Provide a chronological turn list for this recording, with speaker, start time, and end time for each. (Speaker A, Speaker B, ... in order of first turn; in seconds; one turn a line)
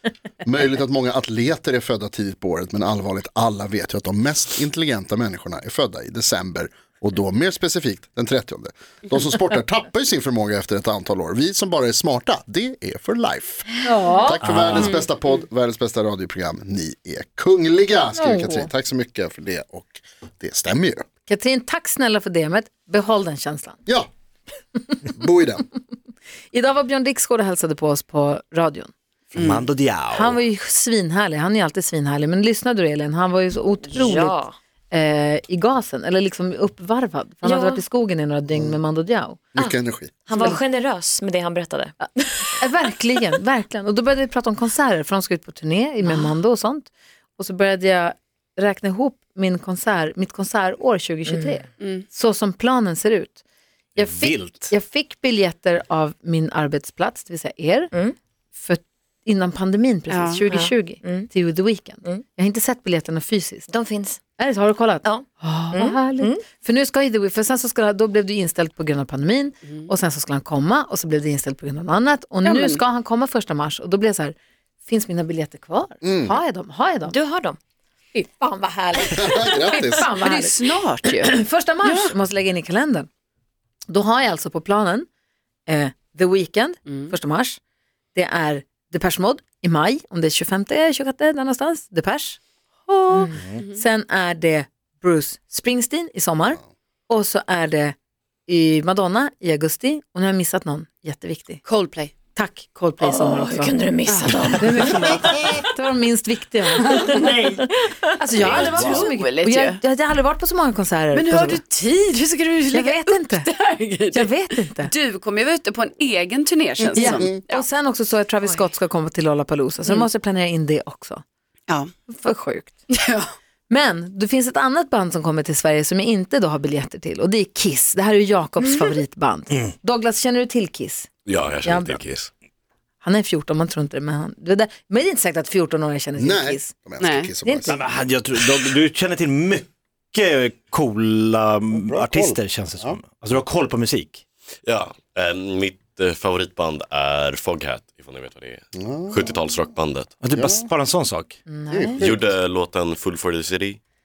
Speaker A: 0.4-21.0
Speaker B: 13.8-14.4
Speaker C: 14.4-14.9
Speaker B: 18.1-18.7
Speaker B: 21.2-23.8
Speaker A: 25.1-25.6
Speaker B: 26.5-28.9
Speaker C: 29.3-30.4
Speaker D: 29.4-29.6
Speaker B: 30.1-34.3
Speaker E: 33.9-34.6
Speaker B: 34.9-39.4
Speaker E: 37.4-37.9
Speaker A: 38.5-38.8
Speaker A: 39.5-40.1
Speaker E: 39.5-42.6
Speaker B: 42.6-53.4
Speaker E: 51.3-51.6
Speaker D: 51.8-52.0
Speaker B: 54.0-57.9
Speaker C: 54.0-54.7
Speaker B: 58.5-63.7
Speaker D: 60.1-60.5
Speaker E: 60.5-61.3
Speaker E: 63.7-64.2
Speaker B: 64.4-74.3
Speaker E: 65.0-66.4
Speaker D: 72.4-72.8
Speaker B: 74.8-77.2
Speaker A: 76.0-76.4
Speaker E: 77.0-77.6
Speaker B: 78.1-80.5
Speaker A: 79.1-80.1
Speaker D: 79.9-82.1
Speaker B: 81.2-83.1
Speaker B: 83.9-85.1
Speaker B: 85.7-87.6
Speaker B: 88.1-97.9
Speaker B: 98.5-101.6
Speaker D: 101.6-102.1
Speaker B: 102.3-103.7
Speaker E: 103.0-104.5
Speaker D: 104.0-105.1
Speaker B: 104.5-106.9
Speaker D: 106.8-107.5
Speaker E: 107.1-108.6
Speaker B: 108.2-111.6
Speaker D: 108.5-109.8
Speaker A: 108.6-108.9
Speaker D: 111.1-117.7
Speaker B: 112.7-113.5
Speaker B: 114.1-114.9
Speaker B: 117.0-121.2
Speaker B: 122.1-122.8
Speaker D: 122.9-123.2
Speaker B: 123.7-131.1
Speaker F: 131.2-132.3
Speaker B: 131.6-132.0
Speaker B: 133.0-136.7
Speaker A: 136.2-137.8
Speaker D: 137.0-137.3
Speaker B: 137.4-137.8
Speaker C: 137.7-144.2
Speaker A: 141.7-143.0
Speaker F: 144.7-150.1
Speaker A: 148.7-149.3
Speaker C: 150.2-151.4
Speaker A: 150.3-150.7
Speaker B: 151.5-152.0
Speaker A: 151.7-152.3
Speaker F: 152.0-153.8